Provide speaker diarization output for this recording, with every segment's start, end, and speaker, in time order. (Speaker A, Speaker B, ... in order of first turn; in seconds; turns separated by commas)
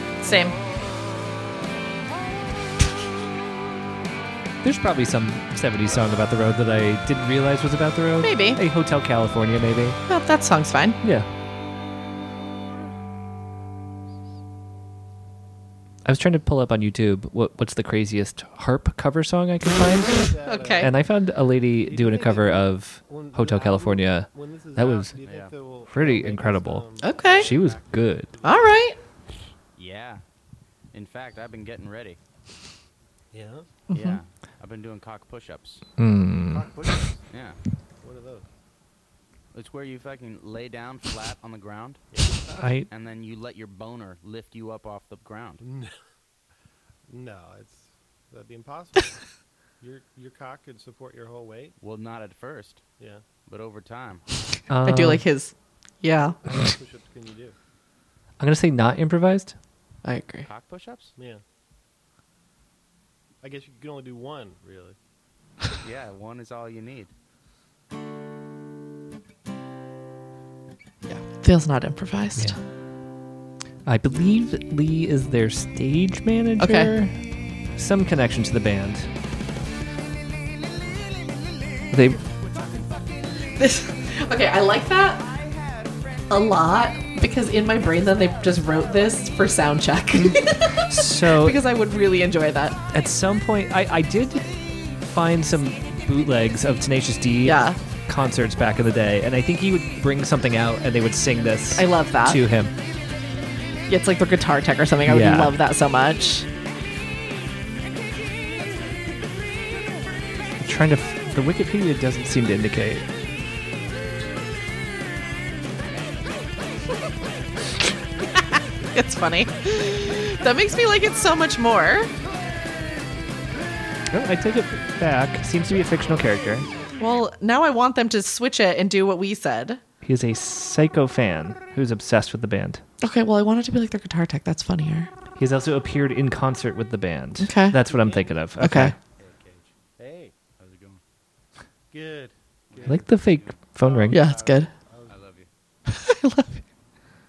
Speaker A: 0.2-0.6, Speaker B: 4.6-10.0, Speaker A: 8.2-8.6, Speaker A: 10.1-11.0, Speaker B: 11.0-11.3, Speaker B: 16.0-20.2, Speaker C: 20.1-20.9, Speaker A: 20.4-20.9, Speaker B: 20.8-25.1, Speaker C: 21.8-28.7, Speaker D: 25.2-25.5, Speaker B: 25.9-28.3, Speaker A: 27.0-27.5, Speaker A: 28.4-29.0, Speaker D: 29.8-30.2, Speaker D: 30.9-32.2, Speaker C: 33.3-33.7, Speaker A: 33.9-34.2, Speaker D: 33.9-35.8, Speaker B: 36.0-36.6, Speaker C: 36.5-37.2, Speaker D: 37.3-37.6, Speaker C: 38.0-38.5, Speaker D: 39.5-42.0, Speaker C: 42.1-42.5, Speaker B: 42.5-42.9, Speaker D: 42.9-45.6, Speaker C: 45.6-46.0, Speaker C: 47.1-49.2, Speaker C: 49.8-51.8, Speaker D: 51.8-52.8, Speaker C: 53.0-53.2, Speaker D: 53.5-54.2, Speaker B: 54.7-55.2, Speaker A: 54.8-56.4, Speaker C: 56.5-57.5, Speaker B: 58.4-59.5, Speaker A: 60.0-60.5, Speaker D: 60.4-61.1, Speaker C: 61.2-61.4, Speaker C: 63.4-65.0, Speaker D: 65.8-67.1, Speaker A: 71.0-72.6, Speaker B: 73.8-77.1, Speaker A: 76.6-76.9, Speaker B: 77.8-79.1, Speaker B: 81.9-82.2, Speaker D: 82.2-84.2, Speaker A: 83.5-85.3, Speaker D: 85.0-86.3, Speaker A: 86.3-92.9, Speaker B: 90.2-91.6, Speaker B: 92.9-102.7, Speaker A: 97.4-97.8, Speaker A: 101.7-102.4, Speaker A: 103.9-106.5, Speaker B: 105.0-105.5, Speaker B: 110.6-113.0, Speaker A: 118.9-122.1, Speaker B: 124.1-126.7, Speaker A: 127.0-129.8, Speaker B: 130.0-132.8, Speaker A: 133.0-135.1, Speaker B: 135.3-138.9, Speaker A: 137.4-137.8, Speaker C: 137.8-138.4, Speaker A: 138.6-138.9, Speaker D: 139.2-139.7, Speaker C: 140.0-140.3, Speaker D: 140.6-141.0, Speaker C: 141.9-145.2, Speaker D: 142.7-143.6, Speaker B: 142.8-144.2, Speaker A: 144.1-144.7, Speaker D: 145.1-145.5, Speaker A: 145.9-146.6